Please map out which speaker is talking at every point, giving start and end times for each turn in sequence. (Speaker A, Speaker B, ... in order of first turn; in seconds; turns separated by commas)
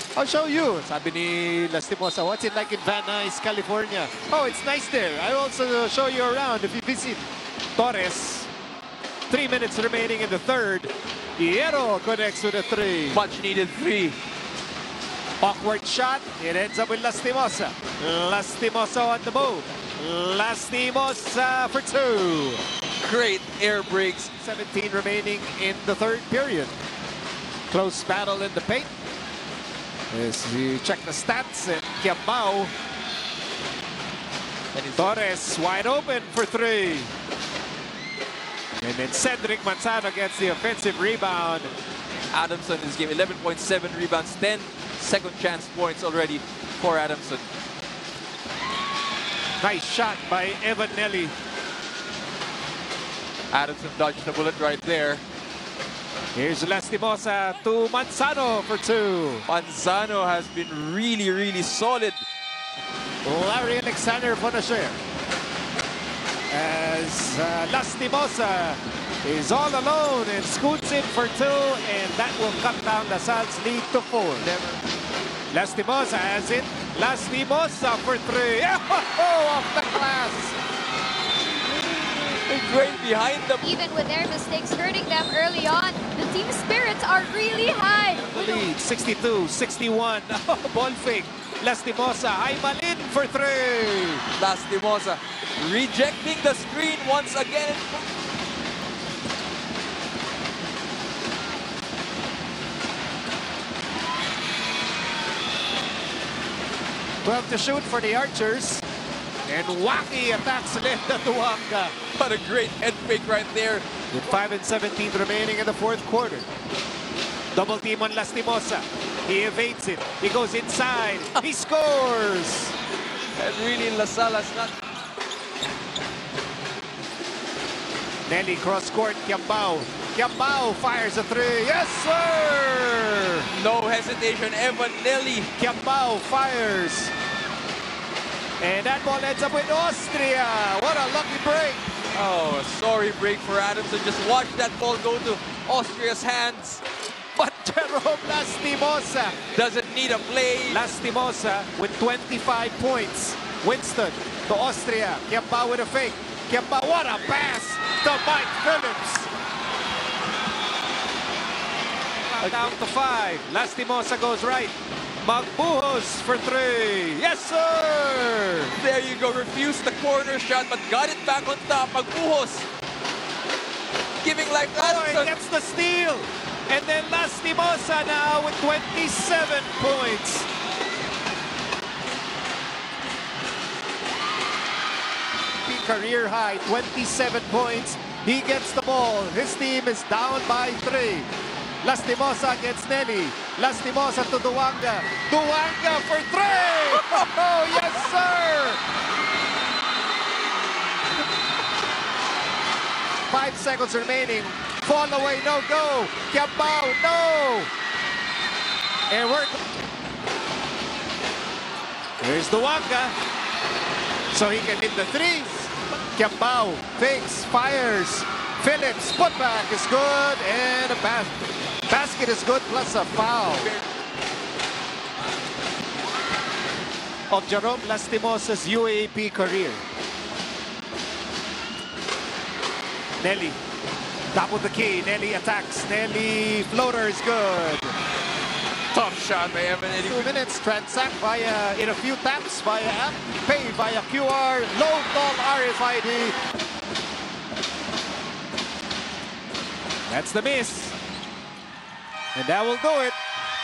Speaker A: 0.2-8.5, Speaker A: 9.3-13.2, Speaker B: 13.1-14.2, Speaker A: 15.4-22.6, Speaker B: 23.0-24.3, Speaker A: 24.4-26.8, Speaker A: 27.7-28.9, Speaker A: 30.1-32.7, Speaker B: 34.7-35.2, Speaker A: 35.0-37.1, Speaker A: 38.8-41.7, Speaker B: 42.3-47.5, Speaker A: 49.6-51.3, Speaker B: 53.5-55.2, Speaker A: 56.4-59.5, Speaker B: 59.5-62.3, Speaker A: 63.2-65.0, Speaker A: 66.5-74.5, Speaker B: 74.4-74.8, Speaker A: 75.5-80.6, Speaker B: 81.7-83.6, Speaker C: 83.6-88.6, Speaker A: 88.3-94.2, Speaker B: 94.4-98.0, Speaker A: 107.2-108.8, Speaker A: 109.5-112.0, Speaker B: 112.2-113.9, Speaker A: 114.1-116.5, Speaker A: 117.5-122.8, Speaker B: 123.4-124.8, Speaker A: 128.3-133.5, Speaker B: 133.5-135.5, Speaker A: 135.6-137.1, Speaker A: 138.6-141.9, Speaker B: 142.1-146.8, Speaker A: 147.4-149.4, Speaker B: 149.5-150.9, Speaker A: 150.7-159.3, Speaker A: 162.3-168.8, Speaker B: 162.4-162.8, Speaker B: 168.8-172.7, Speaker B: 174.2-175.4, Speaker A: 174.8-180.5, Speaker A: 185.7-191.3, Speaker A: 191.8-198.8, Speaker A: 203.3-207.7, Speaker A: 209.1-209.6, Speaker A: 212.2-213.2, Speaker A: 214.3-223.7, Speaker B: 223.5-223.9, Speaker A: 227.3-229.8, Speaker A: 233.2-233.6, Speaker A: 234.3-237.9, Speaker B: 238.9-240.4, Speaker A: 240.0-246.4, Speaker A: 250.1-250.9, Speaker A: 252.3-253.2